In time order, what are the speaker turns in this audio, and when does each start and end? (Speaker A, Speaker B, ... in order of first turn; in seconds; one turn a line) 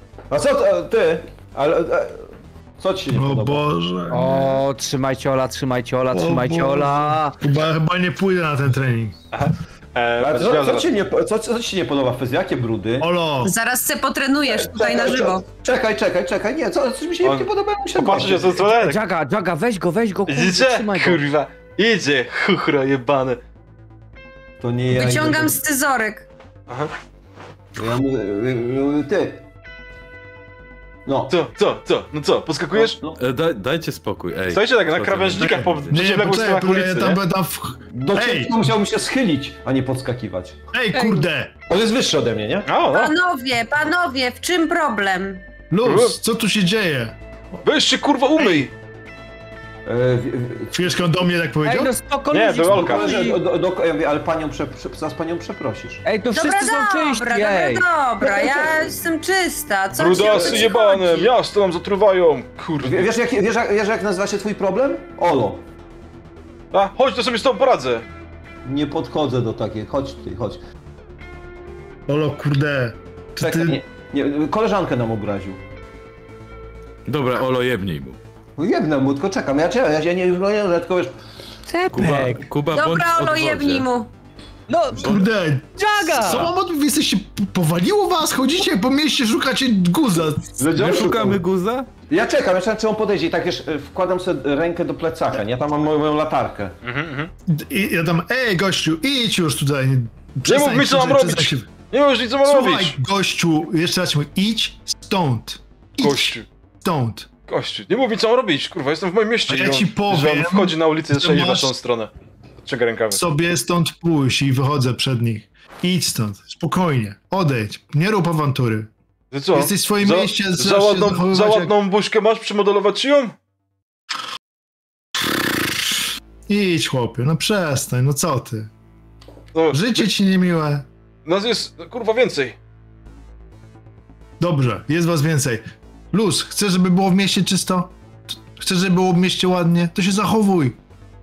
Speaker A: 0.3-3.6
Speaker B: 3.1-4.6
Speaker C: 4.1-7.4
Speaker B: 6.1-9.2
Speaker D: 9.3-10.9
Speaker A: 10.2-13.1
Speaker B: 13.0-13.6
Speaker E: 13.4-15.4
Speaker A: 14.5-18.7
Speaker D: 17.2-19.0
Speaker C: 18.8-21.2
Speaker D: 20.3-23.4
Speaker A: 24.6-25.6
Speaker E: 24.9-26.3
Speaker A: 27.8-29.5
Speaker A: 31.1-31.3
Speaker D: 31.3-33.0
Speaker A: 32.7-33.2
Speaker F: 33.2-36.0
Speaker D: 34.5-37.2
Speaker B: 35.4-38.7
Speaker A: 37.9-40.6
Speaker B: 40.7-41.5
Speaker A: 41.7-42.7
Speaker D: 42.7-43.1
Speaker E: 42.9-45.4
Speaker B: 45.7-47.2
Speaker D: 45.8-46.2
Speaker D: 47.6-48.7
Speaker A: 49.9-51.0
Speaker B: 50.7-51.9
Speaker C: 51.6-53.4
Speaker D: 52.3-53.2
Speaker A: 52.7-56.0
Speaker C: 56.0-57.9
Speaker E: 56.3-61.3
Speaker A: 58.2-59.0
Speaker D: 60.0-63.1
Speaker A: 60.1-60.7
Speaker A: 62.8-65.6
Speaker D: 66.7-68.0
Speaker A: 68.7-70.6
Speaker B: 72.1-73.8
Speaker A: 73.4-75.6
Speaker F: 77.1-78.2
Speaker A: 78.6-81.1
Speaker C: 81.7-82.5
Speaker F: 81.9-83.9
Speaker E: 82.7-84.1
Speaker C: 84.7-85.2
Speaker F: 85.0-85.3
Speaker B: 85.0-90.6
Speaker C: 85.8-86.5
Speaker A: 90.6-91.4
Speaker F: 90.7-91.9
Speaker A: 92.1-96.8
Speaker D: 96.8-97.3
Speaker B: 97.5-101.7
Speaker D: 100.5-103.0
Speaker B: 102.4-107.3
Speaker D: 106.0-106.5
Speaker D: 107.5-112.1
Speaker B: 109.5-111.7
Speaker D: 112.6-113.2
Speaker B: 113.1-118.9
Speaker D: 119.3-123.3
Speaker B: 119.5-121.7
Speaker B: 126.5-128.7
Speaker D: 129.5-130.1
Speaker B: 129.7-130.9
Speaker D: 131.3-132.6
Speaker B: 134.4-140.8